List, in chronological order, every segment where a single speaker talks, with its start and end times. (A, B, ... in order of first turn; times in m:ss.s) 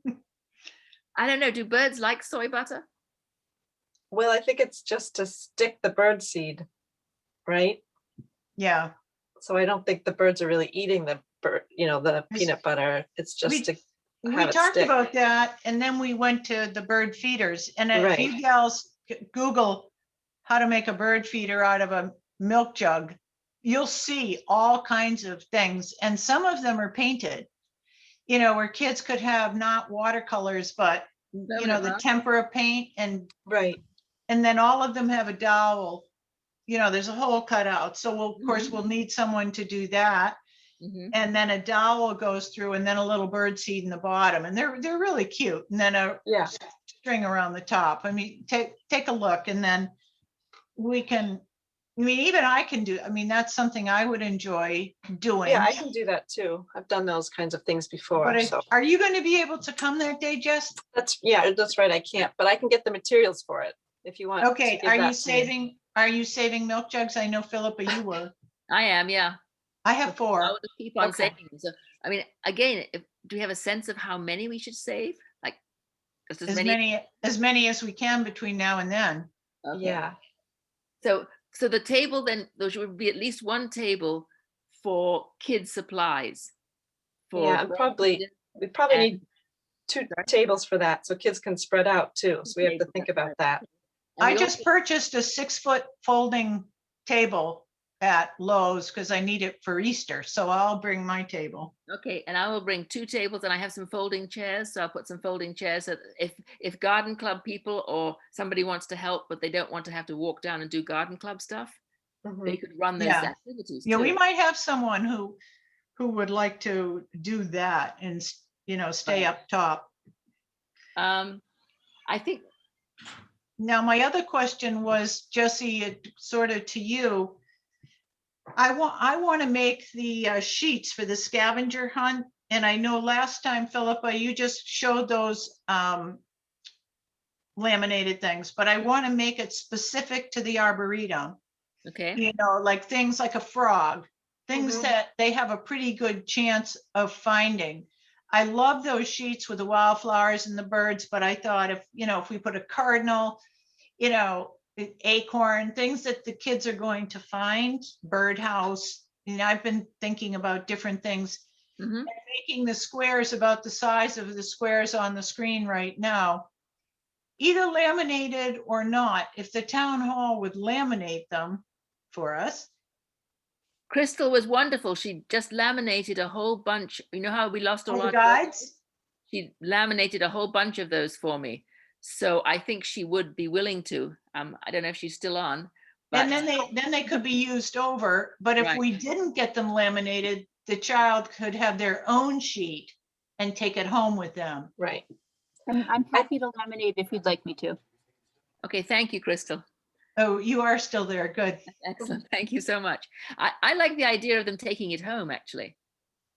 0:01.2-0:02.8 A
0:04.1-0:06.6 B
0:07.4-0:07.8 B
0:08.6-0:08.9 C
0:09.4-0:15.0 B
0:13.4-0:13.7 C
0:14.2-0:19.9 C
0:17.9-0:18.3 B
0:20.4-0:27.5 C
0:28.3-0:33.3 C
0:31.5-0:32.0 A
0:33.4-0:33.8 B
0:34.3-0:36.1 C
0:36.7-0:40.4 C
0:40.8-0:41.1 A
0:41.1-0:49.9 C
0:46.2-0:46.5 B
0:50.8-0:51.4 C
0:52.0-0:55.8 C
0:55.4-0:58.7 B
0:58.2-1:00.8 C
1:00.9-1:05.5 B
1:04.4-1:08.3 C
1:08.7-1:09.4 A
1:09.8-1:10.5 C
1:10.1-1:15.6 A
1:11.0-1:11.3 B
1:16.3-1:16.8 A
1:16.5-1:19.3 C
1:19.6-1:20.0 A
1:19.7-1:20.2 B
1:21.0-1:24.3 A
1:24.8-1:26.5 A
1:27.3-1:28.3 A
1:27.4-1:29.2 B
1:28.9-1:29.2 A
1:29.9-1:33.6 B
1:32.5-1:33.3 A
1:34.2-1:34.7 A
1:34.2-1:41.7 C
1:41.9-1:51.8 A
1:52.2-1:52.6 B
1:52.4-1:54.2 A
1:53.0-1:53.3 C
1:53.8-1:55.4 C
1:56.0-1:59.9 C
2:01.0-2:01.4 A
2:02.1-2:02.4 A
2:03.6-2:07.4 C
2:08.6-2:16.2 C
2:17.6-2:21.4 C
2:21.8-2:22.2 A
2:22.2-2:33.4 C
2:24.5-2:24.9 B
2:34.0-2:41.4 C
2:41.8-2:42.1 A
2:42.1-2:46.5 C
2:47.4-2:52.7 C
2:53.9-2:58.7 A
2:57.9-2:58.7 C
2:59.3-3:06.4 A
3:06.1-3:14.7 C
3:08.6-3:08.8 A
3:14.8-3:15.0 B
3:15.7-3:17.8 D
3:18.6-3:19.6 A
3:20.2-3:21.6 C
3:21.7-3:25.8 A